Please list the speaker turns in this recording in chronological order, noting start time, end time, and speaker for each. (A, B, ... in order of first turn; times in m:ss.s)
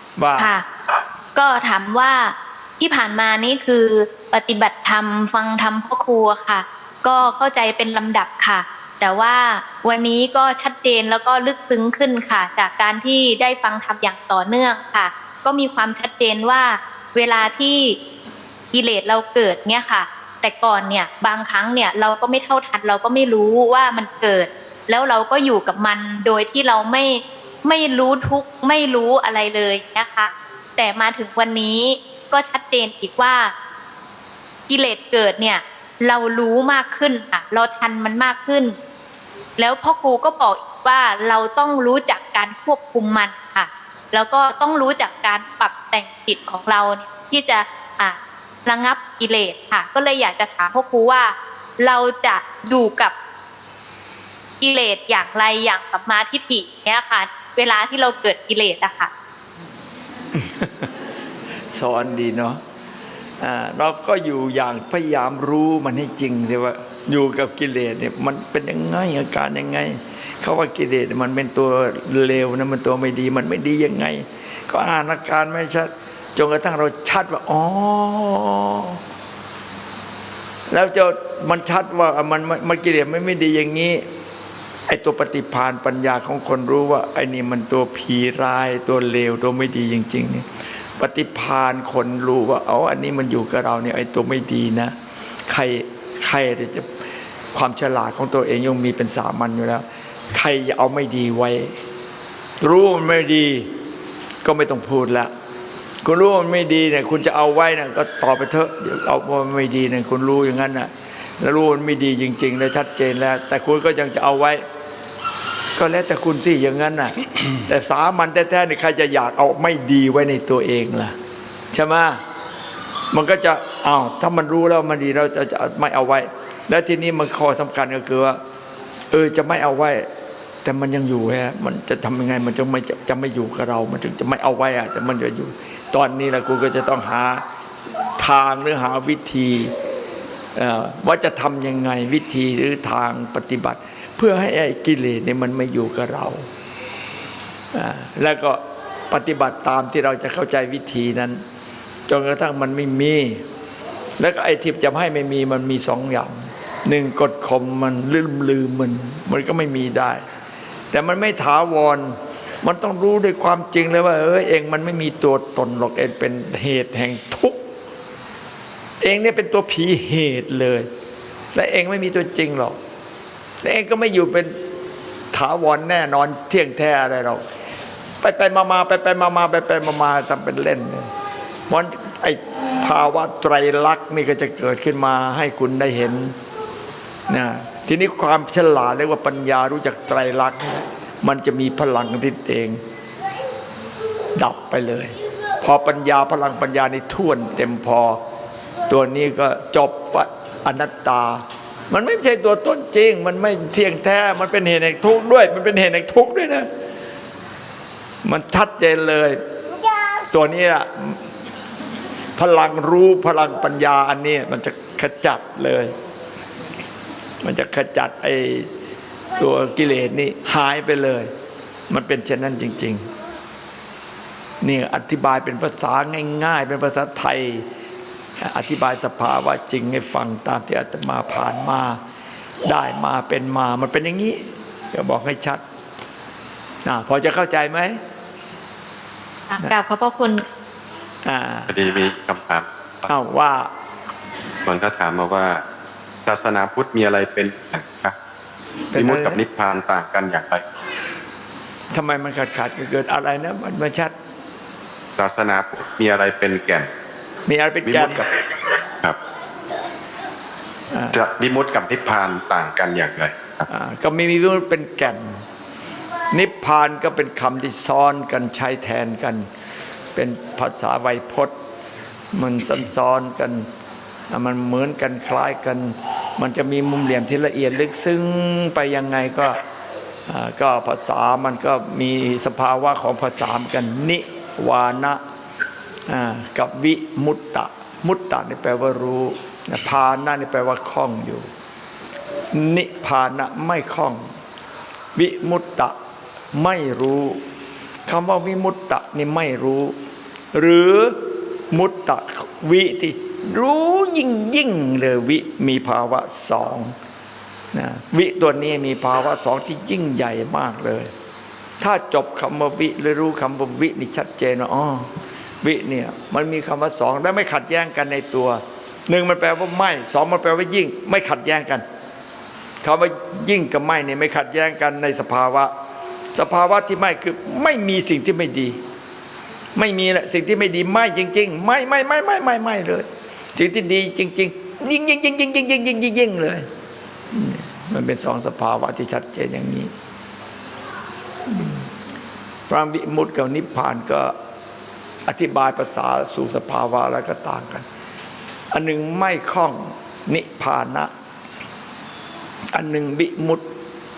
0:00.2-0:00.5 A
0:00.4-0:00.6 B
0:01.4-0:18.0 B
0:18.7-0:33.5 B
0:34.7-0:38.8 B
0:39.6-0:53.1 B
0:54.6-0:59.1 B
1:00.3-1:00.9 A
1:01.7-1:02.6 A
1:03.4-1:19.0 A
1:20.7-1:24.0 A
1:24.9-1:30.5 A
1:31.0-1:35.0 A
1:35.5-1:36.9 A
1:37.5-1:41.8 A
1:42.6-1:43.7 A
1:44.4-1:45.3 A
1:46.0-1:50.9 A
1:51.4-1:54.6 A
1:55.8-2:01.2 A
2:01.7-2:02.2 A
2:03.1-2:08.4 A
2:09.1-2:10.1 A
2:10.6-2:17.4 A
2:18.2-2:19.7 A
2:20.6-2:26.4 A
2:27.7-2:31.4 A
2:32.1-2:33.4 A
2:34.2-2:40.2 A
2:40.9-2:47.6 A
2:49.0-2:50.9 A
2:51.5-2:52.8 A
2:53.6-2:54.5 A
2:55.3-2:57.4 A
2:58.2-3:01.1 A
3:01.7-3:06.3 A
3:07.3-3:12.8 A
3:14.4-3:18.2 A
3:18.9-3:26.7 A
3:28.2-3:29.4 A
3:30.3-3:31.2 A
3:32.4-3:35.9 A
3:37.4-3:38.7 A
3:39.4-3:41.3 A
3:41.9-3:43.1 A
3:44.6-3:47.7 A
3:48.4-3:52.0 A
3:52.6-3:55.6 A
3:56.8-3:58.0 A
3:59.5-4:00.5 B
4:01.2-4:01.8 A
4:01.7-4:03.1 C
4:03.1-4:03.7 A
4:04.7-4:05.6 C
4:06.3-4:08.2 C
4:08.9-4:09.4 A
4:09.0-4:10.6 C
4:11.9-4:14.1 A
4:15.2-4:16.9 C
4:17.5-4:18.2 A
4:17.9-4:18.4 C
4:20.9-4:21.2 A
4:21.1-4:23.7 C
4:23.7-4:25.4 A
4:26.3-4:29.4 A
4:30.2-4:31.5 A
4:32.3-4:33.7 A
4:34.3-4:39.6 A
4:40.3-4:45.2 A
4:46.1-4:51.5 A
4:52.5-4:54.3 A
4:55.2-4:56.0 A
4:56.5-4:57.4 A
4:58.1-5:00.0 A
5:00.5-5:01.2 A
5:01.7-5:07.0 A
5:07.7-5:11.1 A
5:11.8-5:21.8 A
5:22.8-5:25.7 A
5:26.3-5:28.8 A
5:29.8-5:36.7 A
5:37.3-5:39.9 A
5:41.5-5:41.9 A
5:42.7-5:44.3 A
5:45.3-5:47.9 A
5:48.7-5:51.1 A
5:52.7-5:53.6 A